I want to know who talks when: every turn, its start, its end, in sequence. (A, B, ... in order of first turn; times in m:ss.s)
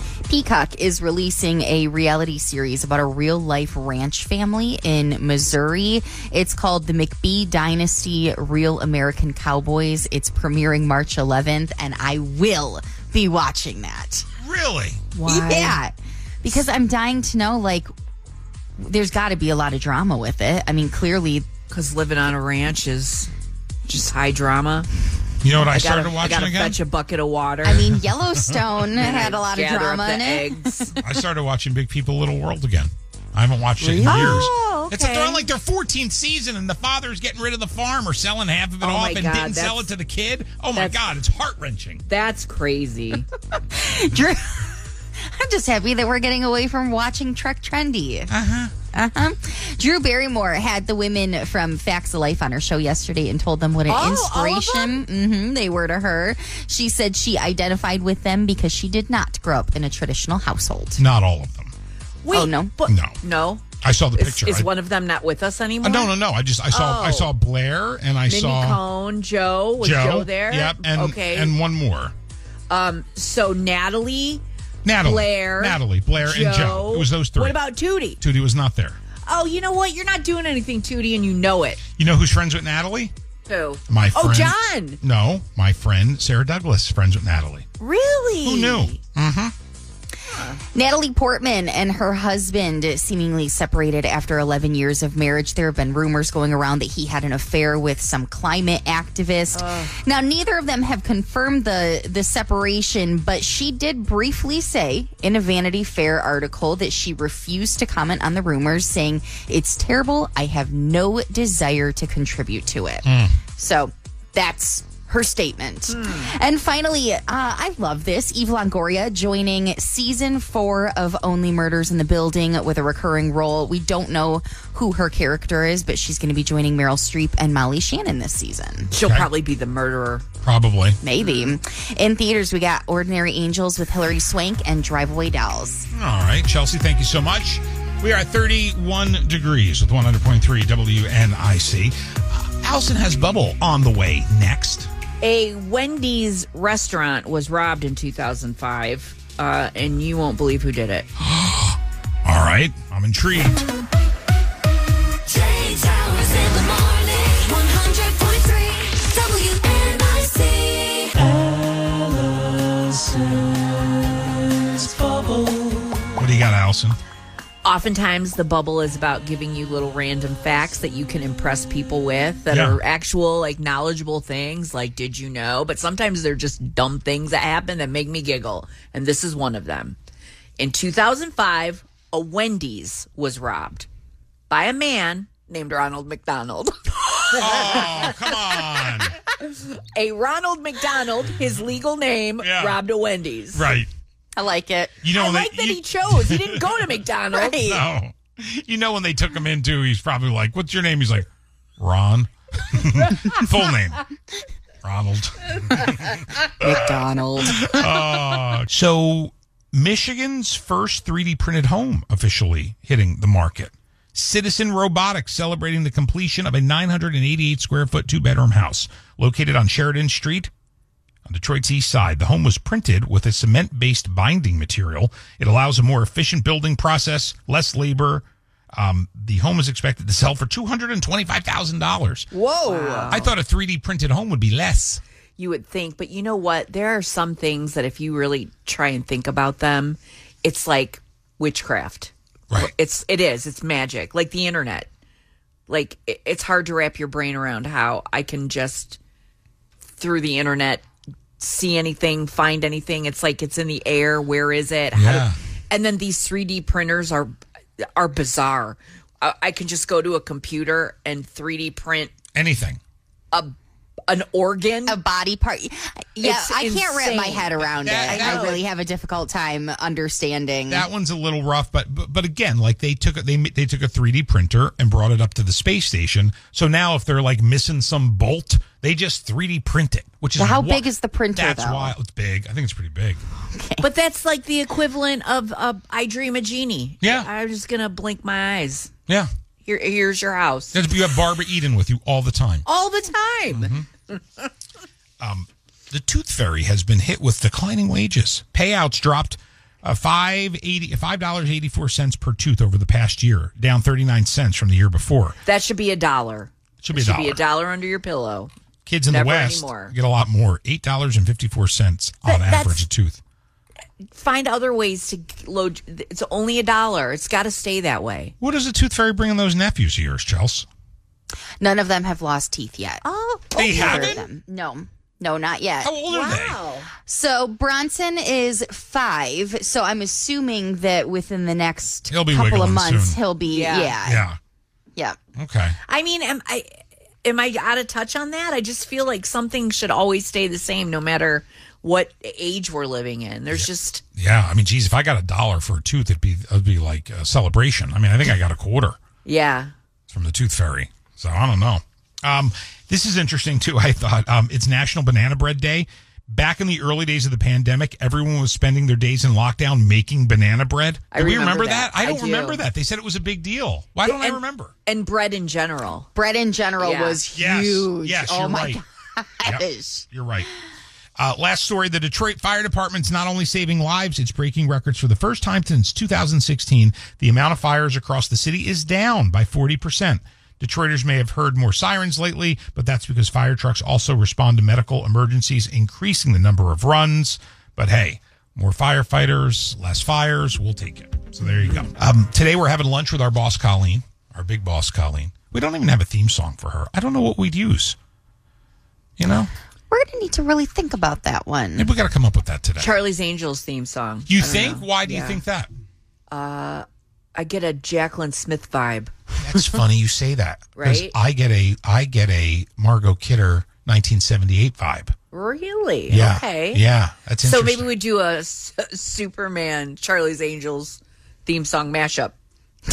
0:00.3-0:14.3 A
0:14.4-0:15.0 B
0:15.1-0:15.8 C
0:15.2-0:17.9 A
0:18.8-0:21.5 A
0:21.7-0:23.3 C
0:23.9-0:24.9 C
0:25.4-0:26.8 B
0:25.7-0:27.9 C
0:27.6-0:30.6 A
0:29.0-0:31.0 C
0:31.0-0:42.0 B
0:33.8-0:34.5 A
0:34.0-0:35.4 C
0:38.8-0:39.9 C
0:42.1-0:43.3 C
0:43.5-0:48.3 A
0:48.3-0:48.7 B
0:48.9-1:01.0 A
0:53.9-0:55.0 C
1:01.0-1:01.7 B
1:02.2-1:06.1 C
1:02.3-1:02.7 A
1:02.9-1:03.2 B
1:03.8-1:04.7 B
1:05.8-1:08.8 B
1:06.7-1:07.3 C
1:08.3-1:11.5 C
1:09.8-1:12.1 B
1:12.7-1:14.4 C
1:14.8-1:17.6 B
1:15.0-1:18.2 C
1:18.2-1:19.0 B
1:19.2-1:21.8 C
1:22.0-1:23.1 B
1:23.5-1:25.0 C
1:23.9-1:27.7 B
1:27.8-1:29.0 C
1:28.4-1:29.5 B
1:30.3-1:30.6 C
1:30.7-2:08.9 A
1:39.5-1:39.9 C
1:53.0-1:53.4 B
1:55.9-1:56.3 C
2:08.9-2:10.2 C
2:09.0-2:09.3 B
2:10.4-2:11.0 B
2:11.0-2:15.8 A
2:11.2-2:11.5 C
2:15.9-2:24.9 B
2:25.2-2:31.1 C
2:31.2-2:33.6 B
2:35.3-2:41.2 D
2:46.2-2:47.0 B
2:47.6-3:00.0 C
2:52.5-2:52.8 B
3:00.6-3:03.9 C
3:04.5-3:08.1 C
3:07.4-3:09.1 B
3:09.7-3:13.7 C
3:12.4-3:12.8 B
3:13.5-3:13.9 B
3:14.3-3:15.0 A
3:15.0-3:16.8 B
3:15.1-3:17.6 C
3:17.3-3:17.8 A
3:17.5-3:21.3 B
3:21.8-3:24.0 B
3:24.8-3:26.7 B
3:26.6-3:28.2 A
3:27.4-3:40.5 B
3:41.2-3:52.3 B
3:52.3-3:53.3 C
3:52.7-3:53.1 A
3:53.1-3:55.0 B
3:55.4-4:04.9 C
4:05.7-4:09.0 C
4:10.0-4:10.8 C
4:11.4-4:22.1 C
4:14.9-4:15.4 B
4:22.3-4:22.8 B
4:24.1-4:25.0 C
4:24.9-4:30.9 A
4:26.2-4:28.6 C
4:27.6-4:28.6 B
4:30.7-4:43.2 B
4:40.4-4:41.9 A
4:43.5-4:43.8 A
4:43.8-4:48.9 C
4:47.0-4:47.3 B
4:49.6-4:50.8 C
4:50.7-4:52.6 B
4:52.6-4:54.5 C
4:53.5-4:53.8 B
4:55.2-5:05.4 B
5:05.4-5:08.5 C
5:06.8-5:07.4 B
5:08.8-5:13.2 B
5:09.1-5:09.9 C
5:12.2-5:12.8 C
5:14.1-5:18.3 C
5:18.4-5:20.6 B
5:21.6-5:25.9 A
5:23.0-5:24.2 C
5:23.6-5:24.2 B
5:25.8-5:26.6 B
5:26.1-5:26.9 C
5:27.0-5:34.2 A
5:32.1-5:33.2 B
5:33.5-5:34.0 C
5:34.0-5:34.4 B
5:35.4-5:35.8 B
5:35.9-5:44.0 C
5:43.5-5:49.0 B
5:49.2-5:49.7 C
5:50.1-6:04.7 B
6:01.1-6:02.6 C
6:04.0-6:06.1 C
6:06.1-6:10.1 A
6:06.8-6:07.2 C
6:07.3-6:08.8 B
6:09.4-6:10.5 B
6:11.2-6:38.0 B
6:39.2-6:39.5 B
6:39.9-6:41.9 A
6:41.8-6:42.9 B
6:42.8-6:45.4 C
6:44.3-6:45.7 B
6:46.3-6:49.1 C
6:49.4-6:55.1 B
6:50.8-6:51.1 C
6:55.3-6:56.8 C
6:56.1-6:57.9 B
6:57.4-7:02.3 C